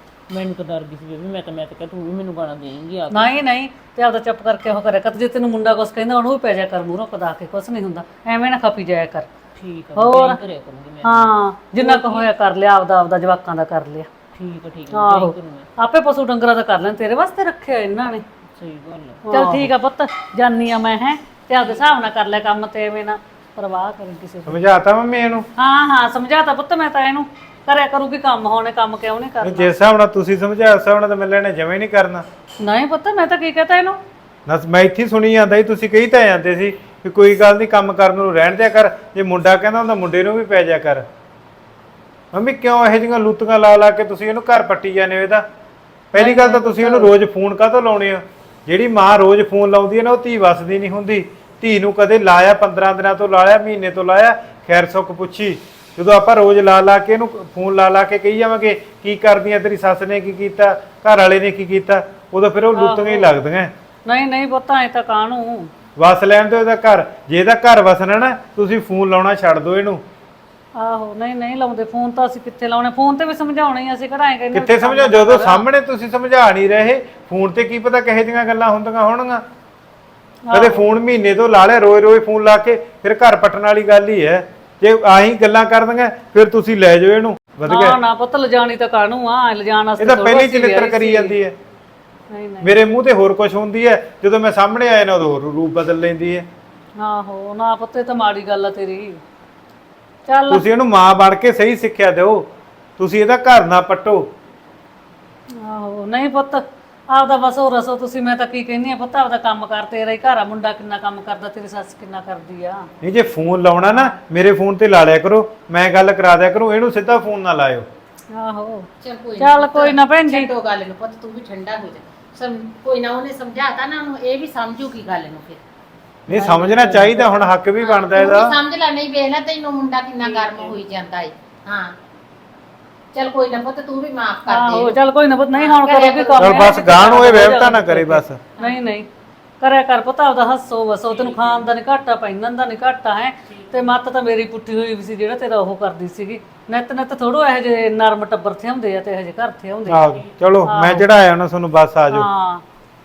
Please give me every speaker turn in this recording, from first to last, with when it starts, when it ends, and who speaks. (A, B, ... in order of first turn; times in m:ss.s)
0:00.3-0:03.3 A
0:03.1-0:09.3 B
0:09.6-0:12.3 A
0:10.0-0:10.4 B
0:11.0-0:14.1 B
0:14.4-0:15.7 A
0:14.9-0:18.2 B
0:18.5-0:19.6 A
0:19.3-0:24.6 B
0:24.5-0:25.5 C
0:25.6-0:29.7 B
0:29.4-0:32.3 C
0:32.6-0:34.0 B
0:34.5-0:41.1 C
0:42.3-0:45.5 C
0:46.1-1:03.7 C
0:46.2-0:47.1 B
1:02.8-1:03.3 B
1:04.1-1:05.7 B
1:06.0-1:10.0 C
1:10.8-1:15.6 B
1:14.5-1:19.4 C
1:20.5-1:20.8 B
1:20.5-1:28.0 C
1:27.7-1:31.3 B
1:30.0-1:31.6 C
1:32.3-1:32.7 B
1:32.6-1:36.5 C
1:37.0-1:39.2 B
1:40.3-1:40.6 B
1:40.5-1:44.3 C
1:45.6-1:52.9 B
1:53.0-1:57.9 C
1:58.3-2:00.5 B
1:59.0-2:05.6 D
2:06.3-2:08.6 C
2:06.3-2:07.3 D
2:07.8-2:12.0 D
2:10.2-2:10.8 B
2:13.1-2:15.0 D
2:14.5-2:19.1 B
2:15.5-2:17.3 D
2:16.4-2:18.4 C
2:19.6-2:30.1 B
2:21.1-2:21.7 A
2:23.5-2:23.9 A
2:29.9-2:32.3 C
2:30.7-2:31.1 B
2:32.1-2:32.6 B